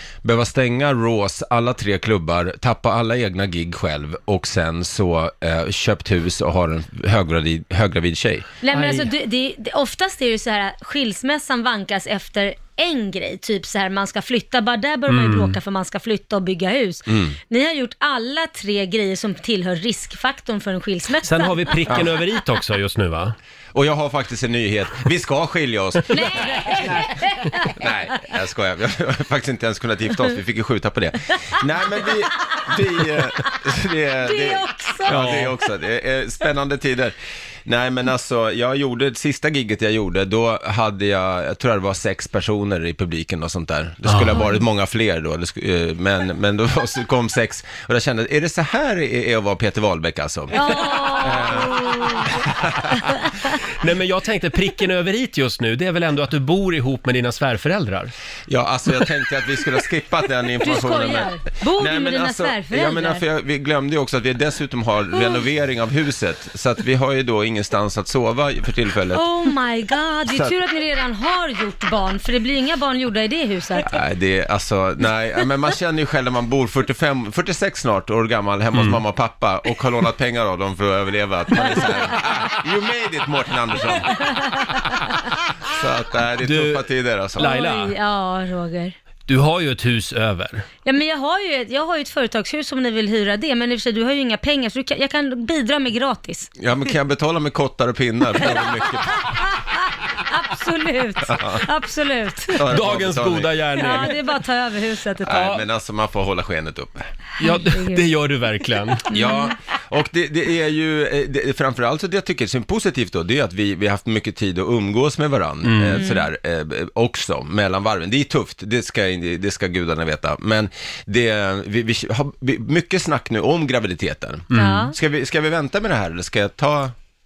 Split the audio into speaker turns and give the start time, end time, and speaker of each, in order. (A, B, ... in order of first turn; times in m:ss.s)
0:00.2-0:08.5 A
0:08.6-0:21.5 B
0:08.7-0:09.1 C
0:15.1-0:15.6 C
0:17.1-0:17.4 A
0:21.2-0:23.4 C
0:21.9-0:22.1 A
0:23.7-0:27.0 A
0:26.1-0:28.3 B
0:27.8-0:37.2 A
0:34.2-0:35.5 B
0:35.1-0:35.5 C
0:37.7-0:52.9 A
0:44.0-0:44.4 C
0:44.3-0:44.6 B
0:50.5-0:52.4 B
0:53.8-0:58.1 C
0:58.5-1:09.2 A
1:00.6-1:03.2 B
1:05.1-1:05.4 B
1:09.1-1:13.9 B
1:10.3-1:10.6 A
1:13.9-1:24.2 A
1:18.7-1:19.0 C
1:24.2-1:24.9 B
1:25.7-1:27.5 A
1:26.4-1:28.0 C
1:27.4-1:29.0 B
1:29.3-1:30.7 C
1:30.8-1:36.5 B
1:36.6-1:39.3 A
1:38.4-1:42.8 B
1:41.3-1:41.6 A
1:42.5-1:43.6 A
1:42.7-1:44.2 C
1:43.8-1:45.5 B
1:45.2-1:45.6 C
1:45.3-1:47.1 A
1:47.4-1:49.1 C
1:47.4-1:48.1 B
1:49.1-1:49.6 B
1:49.1-2:07.0 A
1:55.6-1:56.0 C
1:55.9-1:56.3 B
2:04.5-2:04.9 C
2:04.5-2:05.0 B